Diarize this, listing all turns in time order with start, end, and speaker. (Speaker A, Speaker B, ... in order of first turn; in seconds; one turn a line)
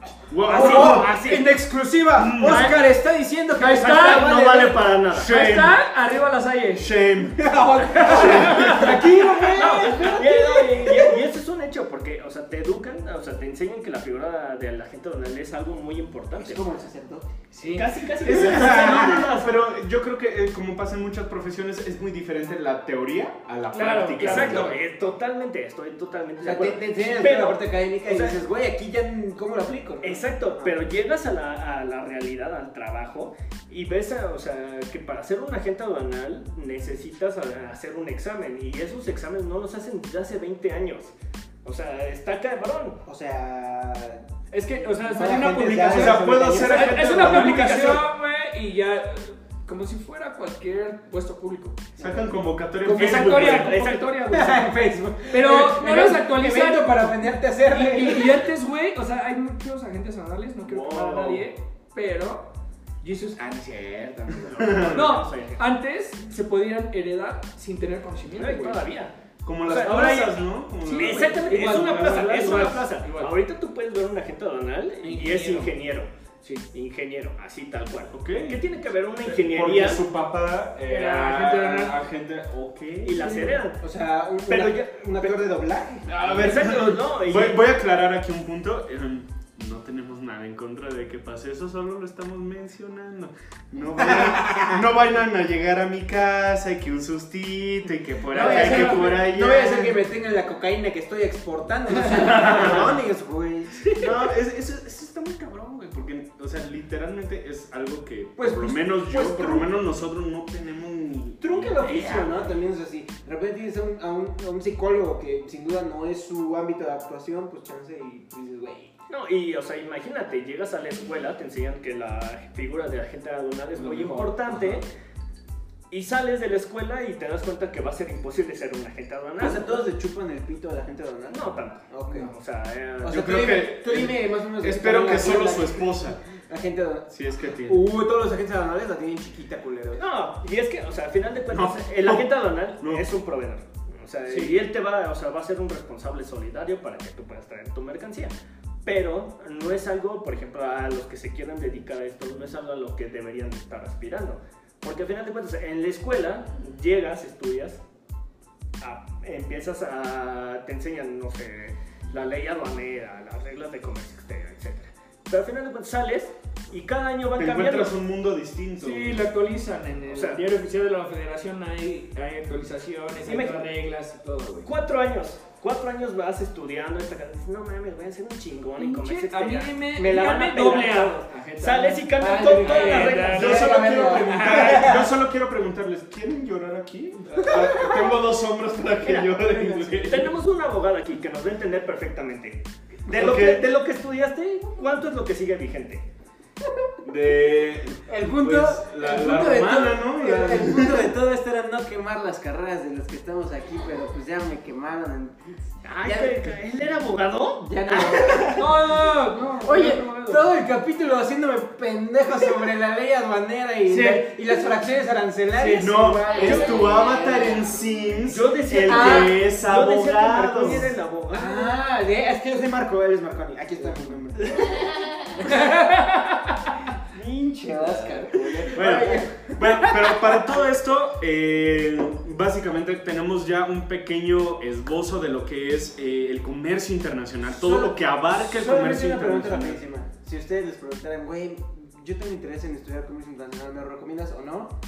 Speaker A: 0.3-1.2
Speaker B: 0.4-1.5
Speaker C: 0.5-5.0
Speaker A: 2.2-2.8
Speaker D: 2.4-2.9
Speaker D: 3.6-4.3
Speaker B: 3.8-5.3
Speaker A: 5.1-5.8
Speaker D: 5.2-6.9
Speaker A: 6.8-9.0
Speaker C: 7.4-11.2
Speaker D: 8.0-10.2
Speaker B: 9.5-16.7
Speaker C: 16.4-17.3
Speaker D: 17.5-17.9
Speaker B: 17.6-19.7
Speaker A: 18.2-24.8
Speaker C: 18.3-19.3
Speaker B: 23.7-28.4
Speaker D: 24.1-24.8
Speaker C: 26.4-30.7
Speaker B: 30.0-43.0
Speaker C: 43.0-44.2
Speaker D: 44.5-51.8
Speaker C: 44.8-47.9
Speaker A: 45.8-48.0
Speaker B: 47.4-47.9
Speaker C: 52.0-52.3
Speaker A: 52.0-53.8
Speaker D: 52.8-54.8
Speaker B: 52.9-54.1
Speaker C: 54.3-58.5
Speaker D: 55.3-62.5
Speaker B: 60.6-61.5
Speaker D: 63.0-68.8
Speaker B: 64.4-65.7
Speaker A: 64.6-65.0
Speaker B: 68.4-76.1
Speaker A: 69.4-71.9
Speaker D: 70.8-73.3
Speaker D: 75.0-75.8
Speaker B: 76.7-80.0
Speaker A: 78.1-78.6
Speaker A: 79.3-83.2
Speaker D: 80.9-82.0
Speaker B: 83.0-83.8
Speaker D: 83.2-83.6
Speaker C: 83.8-86.1
Speaker B: 84.5-85.5
Speaker A: 86.1-100.0
Speaker B: 86.2-87.6
Speaker C: 94.1-94.8
Speaker D: 98.3-99.1
Speaker C: 98.3-104.1
Speaker A: 102.3-103.0
Speaker B: 102.5-102.8
Speaker A: 103.9-111.9
Speaker C: 108.4-109.7
Speaker C: 111.4-118.9
Speaker B: 119.1-124.8
Speaker D: 123.8-124.8
Speaker B: 125.9-129.9
Speaker C: 129.4-132.3
Speaker B: 131.3-133.4
Speaker C: 133.0-137.1
Speaker A: 133.1-136.2
Speaker A: 137.1-137.9
Speaker C: 137.7-140.0
Speaker B: 140.0-148.3
Speaker A: 141.5-143.1
Speaker B: 148.8-157.8
Speaker B: 158.8-167.9
Speaker A: 167.4-169.2
Speaker D: 168.8-174.7
Speaker B: 170.1-170.4
Speaker B: 173.2-173.7
Speaker B: 174.6-183.8
Speaker D: 178.8-184.9
Speaker C: 182.2-185.2
Speaker A: 183.2-190.4
Speaker B: 189.0-189.4
Speaker D: 189.6-190.3
Speaker B: 190.0-196.1
Speaker A: 193.1-193.7
Speaker A: 197.0-201.2
Speaker C: 198.1-206.6
Speaker B: 205.8-208.5
Speaker C: 207.6-209.0
Speaker D: 208.5-210.5
Speaker C: 209.6-217.8
Speaker D: 213.9-214.4
Speaker D: 215.5-216.0
Speaker A: 215.8-220.9
Speaker B: 218.3-221.8
Speaker C: 218.9-219.4
Speaker C: 221.3-224.8
Speaker B: 224.4-224.9
Speaker D: 225.4-226.8
Speaker C: 227.1-230.5
Speaker D: 227.6-228.8
Speaker A: 228.7-239.8
Speaker C: 237.5-244.7